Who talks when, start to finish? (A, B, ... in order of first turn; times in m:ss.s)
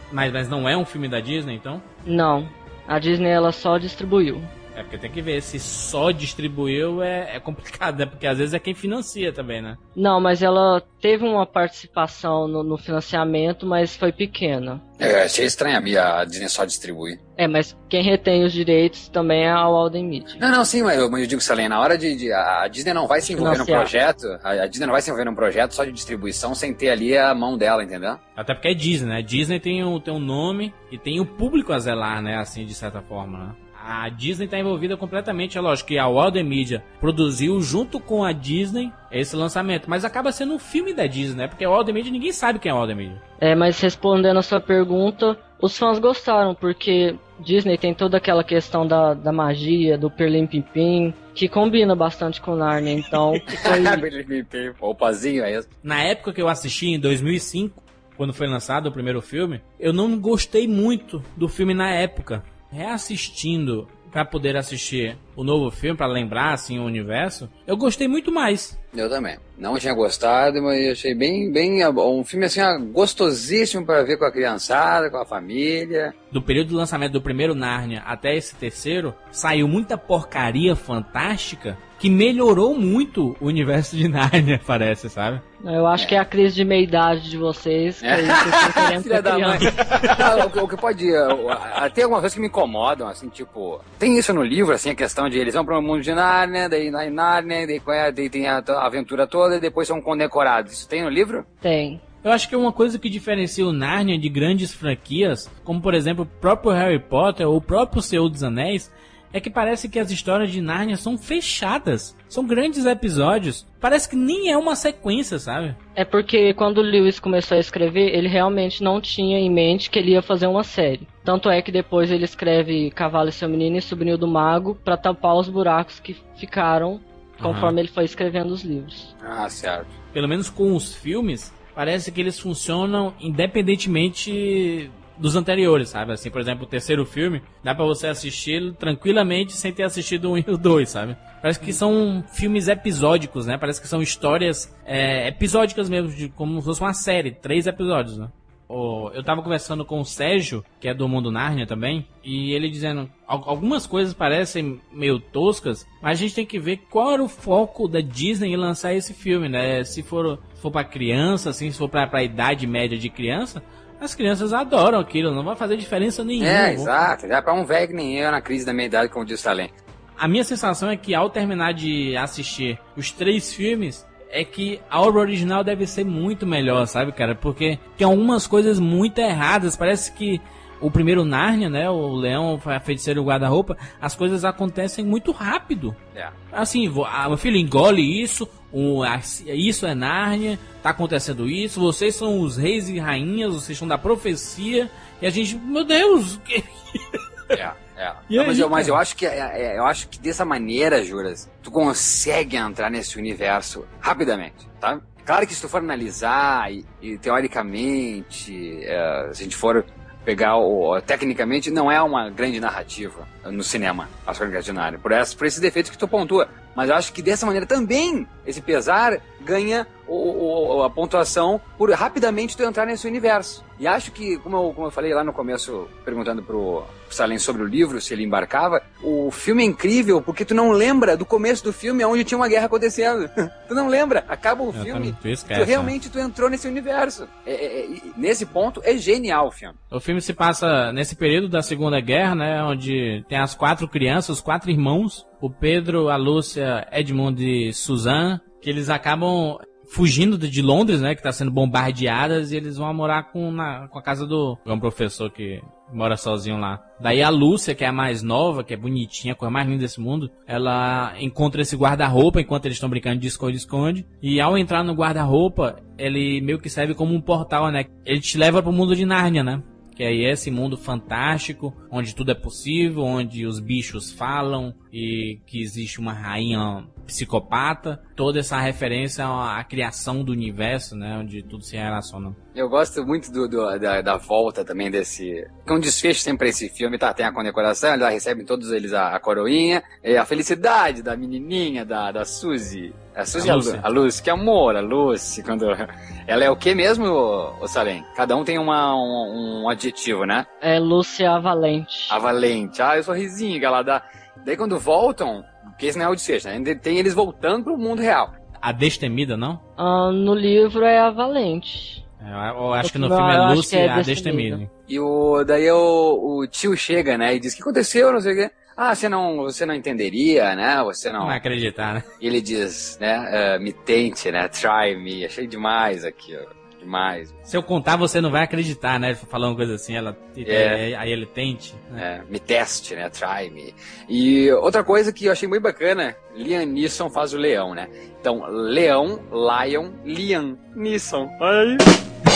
0:00.1-0:01.8 A
0:02.0-0:04.5 B
0:04.7-0:09.8 A
0:10.0-0:14.8 B
0:15.0-0:17.2 C
0:17.4-0:20.4 B
0:20.4-0:28.2 C
0:23.3-0:23.9 B
0:28.4-0:43.2 A
0:43.4-0:54.0 B
0:53.5-0:55.7 C
0:55.8-1:08.8 A
1:08.9-1:16.1 C
1:16.3-1:25.4 A
1:25.6-1:29.7 B
1:28.0-1:41.4 C
1:41.6-1:42.0 B
1:42.2-1:55.8 A
1:56.0-2:09.1 B
2:07.4-2:07.8 A
2:09.2-2:09.9 C
2:10.1-2:46.9 A
2:46.4-2:49.7 C
2:50.2-3:06.0 A
3:06.5-3:17.5 A
3:17.5-3:59.8 C
3:18.3-3:18.9 A
3:54.7-3:55.9 A
3:59.9-4:42.4 A
4:42.5-5:00.5 C
4:53.4-4:53.8 A
5:00.6-5:02.2 B
5:02.1-5:08.3 C
5:08.6-5:09.6 A
5:09.8-5:12.0 B
5:12.2-5:14.7 A
5:12.8-5:14.6 B
5:14.9-5:21.4 C
5:21.2-5:22.0 A
5:22.2-5:27.4 C
5:27.4-5:32.0 A
5:30.4-5:30.8 C
5:32.0-5:41.8 C